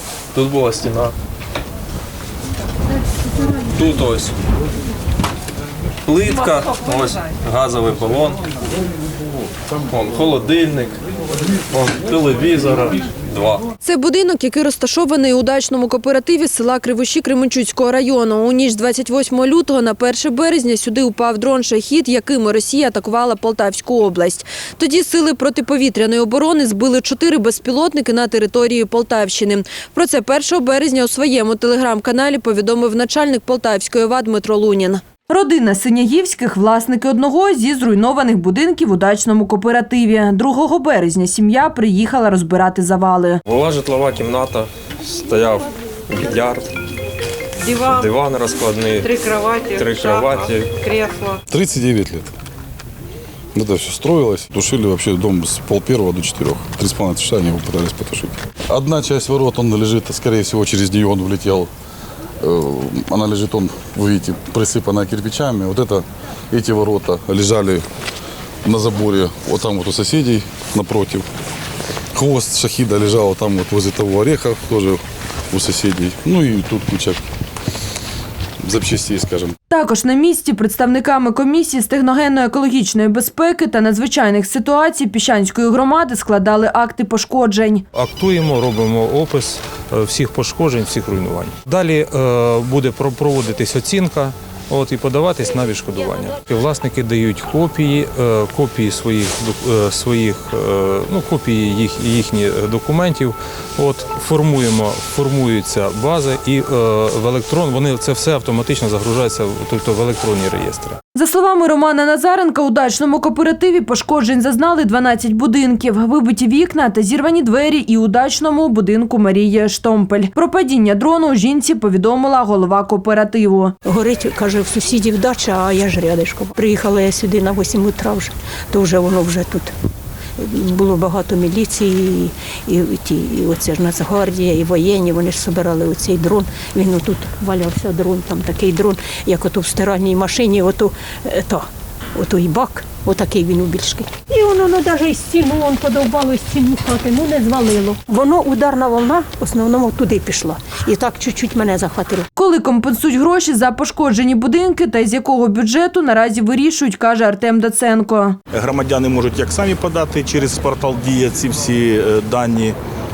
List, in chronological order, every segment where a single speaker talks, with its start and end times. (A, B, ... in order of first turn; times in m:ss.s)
0:00.3-0:01.1 A
0:03.7-0:04.4 A
0:06.0-0:08.4 A
0:09.9-0:11.0 A
0:11.7-0:13.6 A
0:13.8-0:43.4 B
0:43.5-0:44.7 C
0:45.2-0:46.7 C
0:47.6-0:48.0 D
0:47.9-0:49.1 C
0:49.0-0:51.4 D
0:49.8-0:50.7 C
0:51.5-0:52.3 E
0:53.6-1:01.7 E
1:02.4-1:07.8 E
1:08.6-1:11.2 E
1:12.1-1:17.2 E
1:18.6-1:19.6 E
1:19.7-1:27.8 B
1:27.9-1:51.0 C
1:51.1-2:03.8 B
2:03.8-2:09.7 F
2:10.4-2:32.3 F
2:32.4-2:38.4 B
2:38.5-2:42.8 G